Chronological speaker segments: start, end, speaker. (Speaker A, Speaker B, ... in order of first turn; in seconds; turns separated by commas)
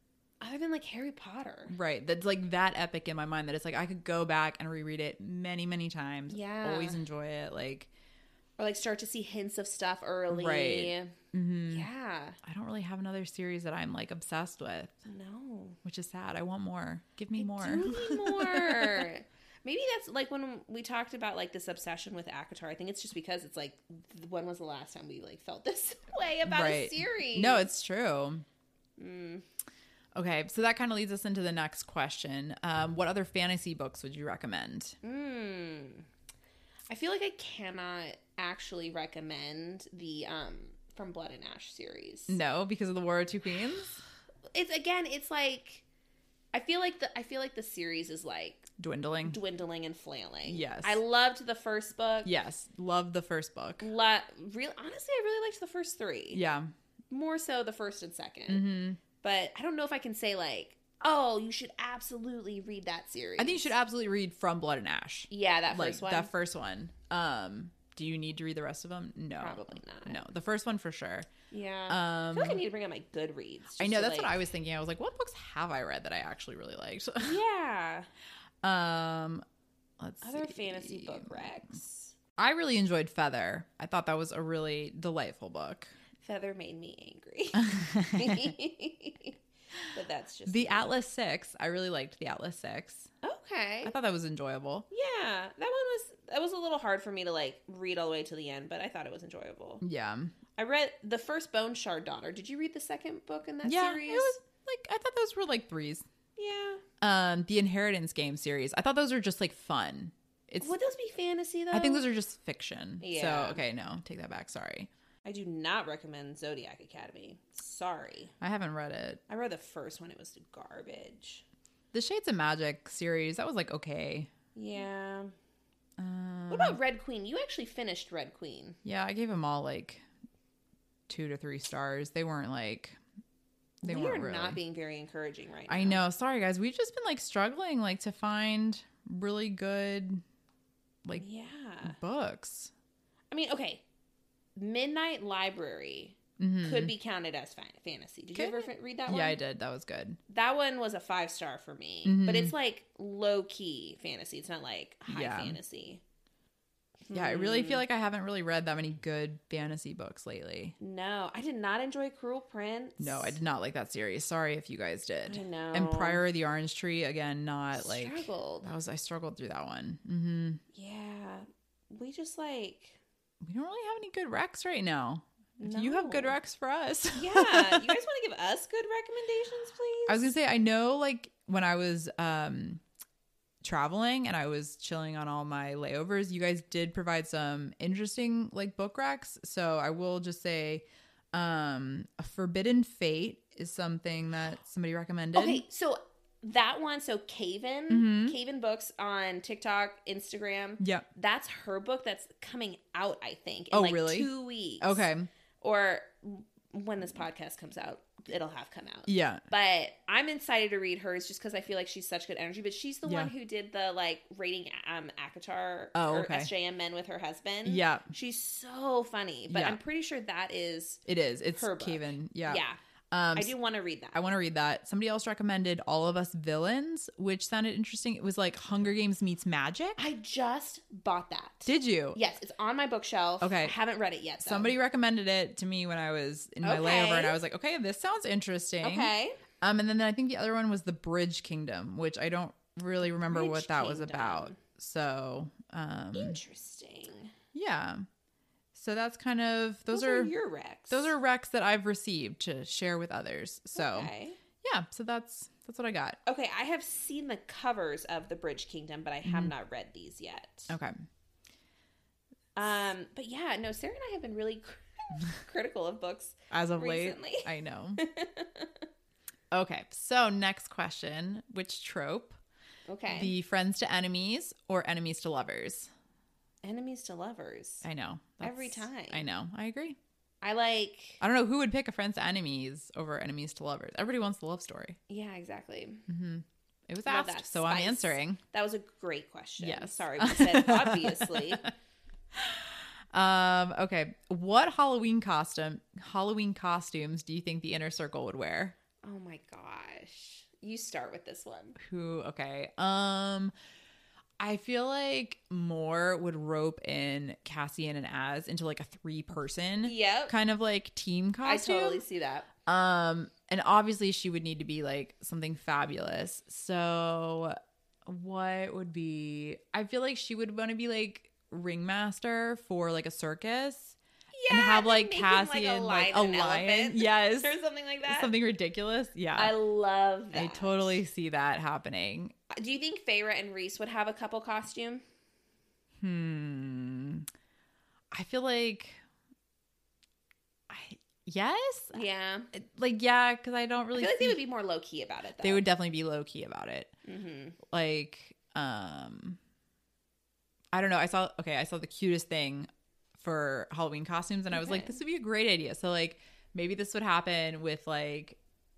Speaker A: 0.4-1.8, Speaker B: 1.7-7.9, Speaker A: 6.3-7.0, Speaker A: 8.6-11.1, Speaker B: 10.3-11.9, Speaker A: 11.7-12.4, Speaker B: 12.4-14.9, Speaker A: 15.1-15.8, Speaker B: 15.8-19.1, Speaker A: 17.4-27.7, Speaker B: 26.4-28.4, Speaker A: 29.0-29.4, Speaker B: 30.1-35.0, Speaker A: 35.0-36.1, Speaker A: 36.9-42.4, Speaker B: 42.3-44.0, Speaker A: 44.5-45.8, Speaker A: 46.5-48.7, Speaker B: 48.8-49.4, Speaker A: 49.2-52.3, Speaker B: 50.5-51.0, Speaker B: 52.2-53.9, Speaker A: 53.8-56.4, Speaker B: 56.3-56.7, Speaker A: 57.1-58.7, Speaker B: 58.5-59.0, Speaker A: 59.2-63.7, Speaker B: 63.4-71.3, Speaker A: 65.3-66.3, Speaker A: 69.4-70.2, Speaker A: 71.5-74.4, Speaker B: 71.9-72.6, Speaker B: 73.8-77.4, Speaker A: 77.2-78.1, Speaker B: 78.6-79.4, Speaker B: 80.0-81.6, Speaker A: 80.2-82.2, Speaker B: 82.4-85.9, Speaker A: 86.2-89.4, Speaker B: 87.5-88.5, Speaker A: 89.9-90.9, Speaker B: 90.5-93.1, Speaker A: 93.2-93.9, Speaker B: 93.8-94.9, Speaker A: 94.9-99.8, Speaker B: 99.8-100.3, Speaker A: 100.6-104.4, Speaker B: 103.7-106.1, Speaker A: 106.4-106.8, Speaker B: 107.0-110.7, Speaker A: 110.6-112.1, Speaker B: 111.7-114.9, Speaker A: 113.0-113.6, Speaker A: 115.2-118.3, Speaker B: 118.4-119.2, Speaker A: 119.3-121.4, Speaker B: 121.9-124.3, Speaker A: 124.5-125.3, Speaker B: 126.0-126.8, Speaker A: 126.5-128.8, Speaker B: 128.8-130.0, Speaker B: 131.1-133.0, Speaker B: 133.8-134.6, Speaker A: 133.8-136.0, Speaker B: 135.7-140.2, Speaker A: 141.2-142.0, Speaker B: 141.8-142.7, Speaker A: 143.3-143.8, Speaker A: 144.6-149.4, Speaker B: 146.4-146.9, Speaker B: 148.3-150.2, Speaker A: 150.3-156.0, Speaker B: 152.1-152.5, Speaker B: 155.1-155.6, Speaker A: 157.1-157.8, Speaker B: 157.1-160.8, Speaker A: 160.8-163.4, Speaker B: 163.0-170.6, Speaker A: 165.3-166.2, Speaker A: 167.7-168.7, Speaker A: 170.7-173.0, Speaker B: 173.4-178.0, Speaker A: 175.6-176.4, Speaker A: 177.1-180.3, Speaker B: 180.1-182.8, Speaker B: 183.6-195.6, Speaker A: 195.3-205.1, Speaker B: 197.9-198.4, Speaker B: 200.8-201.1, Speaker B: 203.7-204.3, Speaker B: 204.8-205.3, Speaker A: 205.6-222.8, Speaker B: 209.1-209.4, Speaker B: 213.1-213.3, Speaker B: 215.9-216.5, Speaker B: 217.7-218.1, Speaker B: 219.5-219.8, Speaker B: 221.1-223.5, Speaker A: 223.3-224.2, Speaker B: 224.1-230.0, Speaker A: 230.0-234.8, Speaker B: 231.7-232.2, Speaker B: 233.4-233.8, Speaker B: 234.4-246.4, Speaker A: 236.6-237.4, Speaker A: 238.8-239.4, Speaker A: 243.2-244.6, Speaker A: 246.1-247.3, Speaker B: 247.5-248.0, Speaker B: 248.7-250.3, Speaker A: 249.9-251.1, Speaker B: 250.9-254.1, Speaker A: 253.7-254.4, Speaker B: 254.6-256.2, Speaker A: 256.3-260.7, Speaker B: 259.2-259.5, Speaker B: 260.7-261.0, Speaker A: 262.6-268.9, Speaker B: 266.5-268.0, Speaker B: 269.5-272.4, Speaker A: 272.9-273.3, Speaker B: 273.1-275.9, Speaker A: 276.6-277.9, Speaker B: 277.8-280.0, Speaker A: 278.4-279.2, Speaker A: 280.4-281.2, Speaker B: 281.2-285.0, Speaker A: 285.1-286.1, Speaker B: 286.1-288.4, Speaker A: 287.1-291.7, Speaker B: 289.6-291.7, Speaker B: 292.3-298.8, Speaker A: 299.0-301.8, Speaker B: 301.8-303.5, Speaker B: 304.4-312.0, Speaker A: 309.8-310.4, Speaker A: 311.4-312.5, Speaker B: 312.7-324.0, Speaker A: 324.3-328.3, Speaker B: 324.5-329.5, Speaker A: 329.4-331.0, Speaker B: 330.3-332.4, Speaker A: 332.5-335.0, Speaker B: 336.0-337.3, Speaker B: 338.1-339.0, Speaker B: 340.7-344.4, Speaker A: 341.9-342.5, Speaker A: 343.9-345.7, Speaker B: 345.4-346.9, Speaker A: 347.1-347.6, Speaker B: 347.6-349.4, Speaker B: 350.7-358.4, Speaker A: 354.5-355.0